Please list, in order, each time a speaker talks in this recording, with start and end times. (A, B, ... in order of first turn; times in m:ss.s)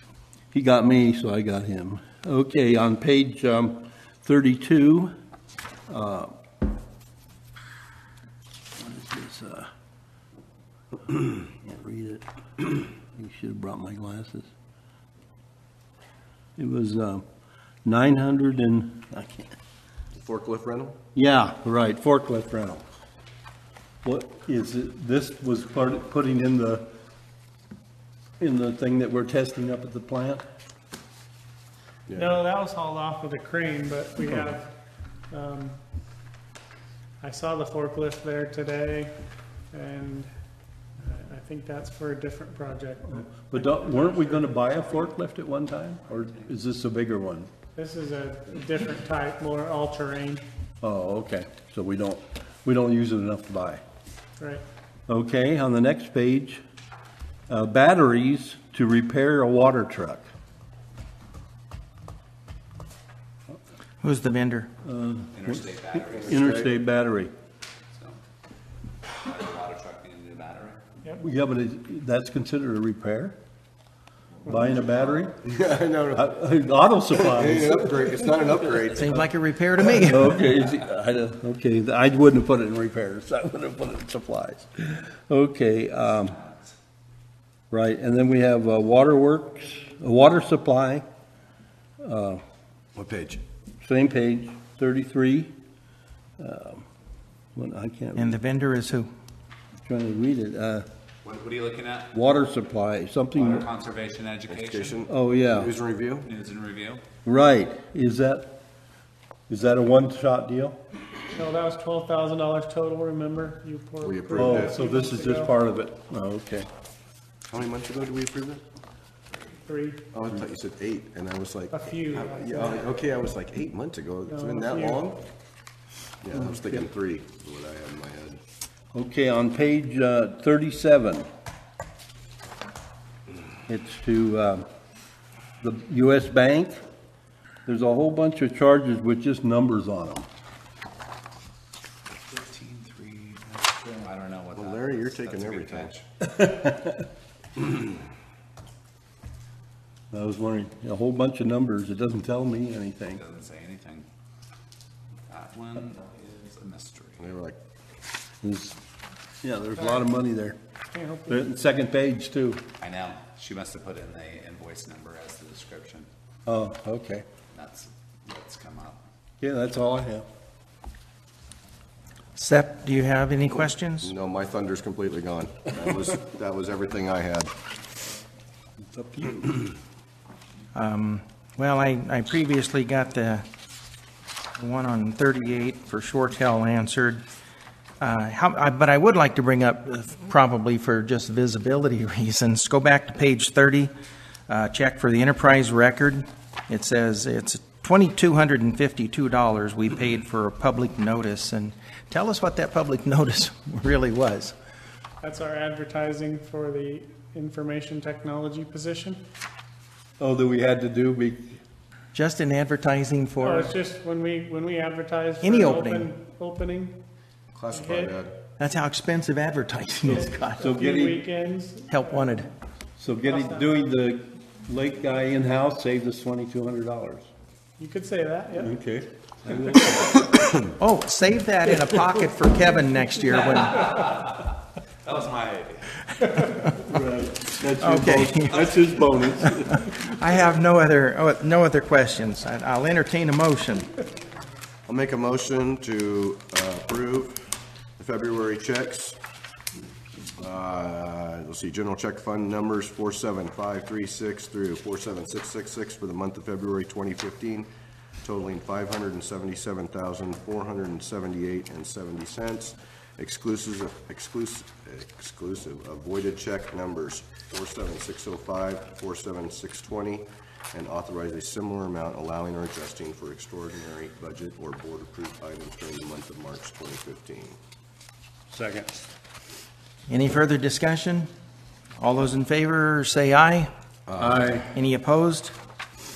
0:00.5-0:05.1 A
0:05.9-0:06.3 A
0:08.8-0:09.7 A
0:11.1-0:14.5 A
0:16.6-0:17.2 A
0:17.8-0:19.6 A
0:20.1-0:21.0 B
0:21.1-0:22.9 A
0:24.0-0:26.9 A
0:28.4-0:30.4 A
0:32.1-0:32.4 B
0:32.1-0:34.7 C
0:35.3-0:35.8 C
0:37.2-0:39.1 C
0:39.7-0:40.3 C
0:41.0-0:44.7 C
0:43.1-0:47.5 A
0:47.7-0:50.4 C
0:50.8-0:53.8 A
0:55.1-0:56.6 A
0:57.5-1:00.3 A
1:04.0-1:04.7 D
1:04.8-1:07.3 A
1:05.3-1:06.6 E
1:06.1-1:06.7 B
1:09.2-1:10.8 E
1:11.2-1:13.4 A
1:14.4-1:15.4 A
1:15.4-1:16.3 B
1:16.1-1:18.2 A
1:17.2-1:19.1 B
1:18.9-1:20.4 D
1:19.8-1:26.4 A
1:27.7-1:31.0 A
1:32.0-1:32.4 A
1:32.9-1:33.4 B
1:33.8-1:35.5 A
1:36.4-1:36.9 A
1:37.6-1:38.3 A
1:38.1-1:39.1 D
1:39.8-1:40.9 A
1:41.2-1:42.1 E
1:42.1-1:43.7 A
1:43.3-1:45.0 E
1:44.5-1:46.3 B
1:45.1-1:45.7 A
1:46.2-1:47.0 E
1:47.2-1:48.5 A
1:49.5-1:50.8 A
1:51.3-1:55.5 C
1:54.0-1:54.8 B
1:54.3-1:56.7 A
1:57.5-1:58.6 B
1:59.6-2:00.0 C
2:00.1-2:05.2 B
2:01.7-2:02.9 C
2:04.3-2:05.0 C
2:06.2-2:08.4 B
2:06.3-2:06.8 A
2:08.9-2:11.3 A
2:13.7-2:14.7 A
2:15.6-2:16.8 A
2:17.7-2:20.3 A
2:22.3-2:26.0 E
2:24.5-2:26.0 B
2:26.2-2:27.0 A
2:30.1-2:33.2 A
2:33.1-2:34.1 E
2:35.3-2:37.3 E
2:37.2-2:37.6 B
2:38.4-2:38.8 A
2:39.4-2:40.6 A
2:40.9-2:41.5 C
2:41.3-2:42.6 A
2:42.8-2:46.1 E
2:46.4-2:47.2 A
2:47.5-2:49.0 E
2:49.4-2:50.2 A
2:52.4-2:54.1 D
2:54.0-2:57.5 B
2:58.9-2:59.7 A
3:00.7-3:03.4 D
3:04.6-3:07.2 D
3:08.0-3:13.9 D
3:14.5-3:24.5 D
3:25.2-3:29.2 C
3:30.2-3:31.6 A
3:32.1-3:33.7 D
3:33.4-3:37.0 C
3:35.4-3:36.1 D
3:37.5-3:38.3 B
3:37.7-3:38.2 C
3:38.6-3:40.7 D
3:40.1-3:42.5 C
3:40.6-3:41.2 A
3:41.9-3:42.5 D
3:43.0-3:47.3 A
3:43.2-3:43.8 C
3:47.8-3:48.8 C
3:48.6-3:50.4 A
3:50.6-3:54.1 D
3:53.7-3:54.4 E
3:55.0-3:56.2 E
3:56.7-3:59.9 A
3:57.8-3:58.7 D
3:59.4-4:03.9 D
4:04.9-4:07.4 B
4:08.0-4:09.2 B
4:10.4-4:17.7 B
4:18.2-4:37.6 B
4:38.5-4:38.9 A
4:40.1-4:41.3 D
4:42.0-4:43.7 D
4:44.1-4:44.6 B
4:44.2-4:44.7 A
4:44.7-4:45.5 D